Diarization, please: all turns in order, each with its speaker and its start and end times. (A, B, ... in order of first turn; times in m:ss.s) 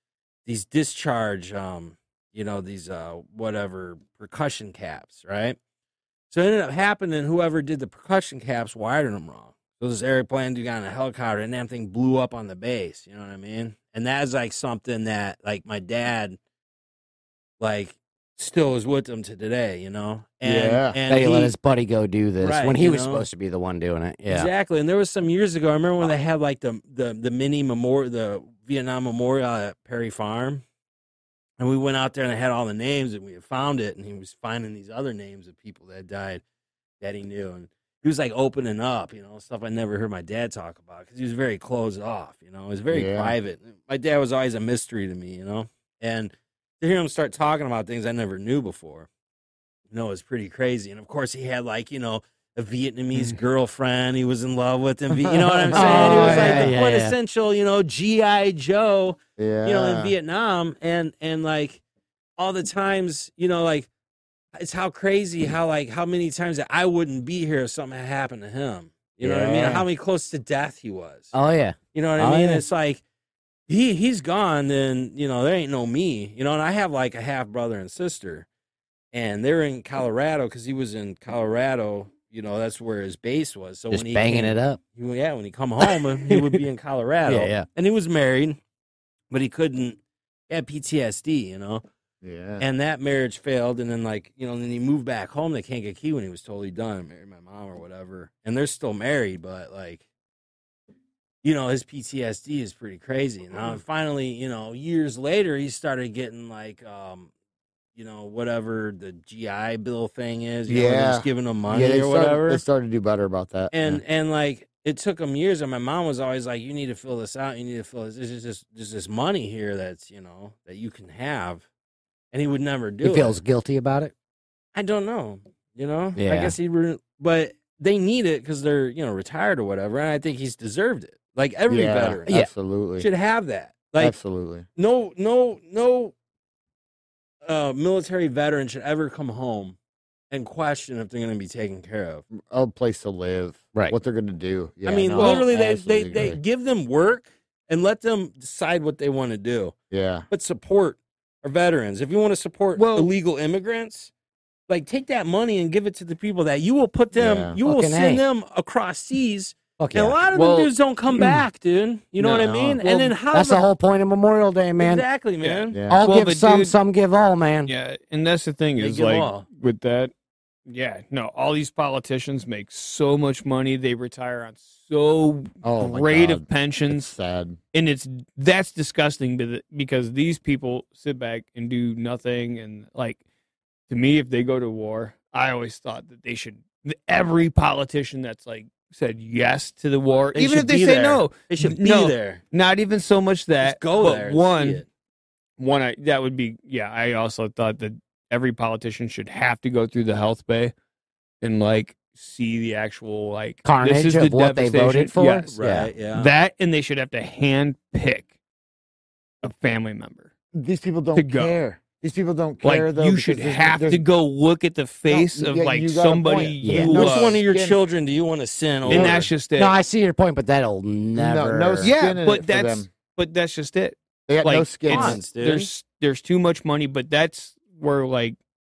0:00.5-0:05.6 A
0:06.3-0:16.4 A
0:17.6-0:21.5 A
0:20.4-0:21.0 B
0:21.1-0:24.5 C
0:22.4-0:23.3 A
0:24.3-0:30.6 A
0:31.6-0:36.4 A
0:37.0-0:49.1 A
0:42.9-0:43.3 B
0:49.9-1:01.8 A
0:55.3-0:56.7 B
0:55.7-0:57.2 C
0:59.4-1:00.1 B
1:02.4-1:03.9 A
1:04.6-1:11.3 A
1:09.2-1:09.8 B
1:11.3-1:12.6 C
1:11.9-1:13.0 A
1:13.7-1:18.5 A
1:19.1-1:28.6 A
1:23.9-1:24.8 C
1:25.8-1:26.6 C
1:27.3-1:27.7 C
1:29.3-1:30.0 A
1:30.5-1:31.8 A
1:32.2-1:32.6 B
1:32.6-1:40.0 A
1:41.4-1:47.3 A
1:48.0-1:52.6 A
1:50.7-1:54.0 B
1:53.7-2:01.6 A
2:02.3-2:03.4 A
2:03.0-2:04.1 C
2:04.7-2:12.4 A
2:06.2-2:06.6 C
2:11.7-2:13.1 B
2:13.0-2:14.2 A
2:14.0-2:14.7 B
2:14.8-2:16.1 A
2:17.4-2:19.8 A
2:20.3-2:22.3 A
2:22.3-2:26.4 B
2:24.8-2:29.8 A
2:25.2-2:25.4 D
2:29.9-2:30.3 B
2:30.3-2:34.1 A
2:32.8-2:33.1 D
2:34.7-2:43.6 A
2:37.1-2:37.6 B
2:37.6-2:38.2 C
2:39.8-2:40.2 C
2:40.3-2:41.4 D
2:42.2-2:43.2 D
2:43.3-2:45.0 C
2:44.8-2:45.8 A
2:45.4-2:46.8 D
2:45.7-2:46.0 B
2:45.9-2:47.7 C
2:47.7-2:50.1 D
2:48.8-2:49.5 A
2:50.7-2:57.1 D
2:55.6-2:57.6 B
2:57.7-3:03.2 D
3:03.9-3:14.8 D
3:10.4-3:12.4 A
3:13.6-3:14.9 A
3:15.6-3:20.7 D
3:21.4-3:25.5 D
3:23.6-3:25.9 C
3:25.6-3:26.3 A
3:26.2-3:28.3 D
3:29.4-3:30.3 D
3:30.6-3:34.0 B
3:31.2-3:31.6 D
3:32.6-3:37.4 D
3:35.1-3:37.8 B
3:36.6-3:36.9 C
3:36.9-3:39.3 A
3:38.9-3:39.8 D
3:38.9-3:41.9 C
3:41.2-3:42.9 B
3:41.8-3:48.4 D
3:44.3-3:45.2 B
3:44.9-3:45.7 A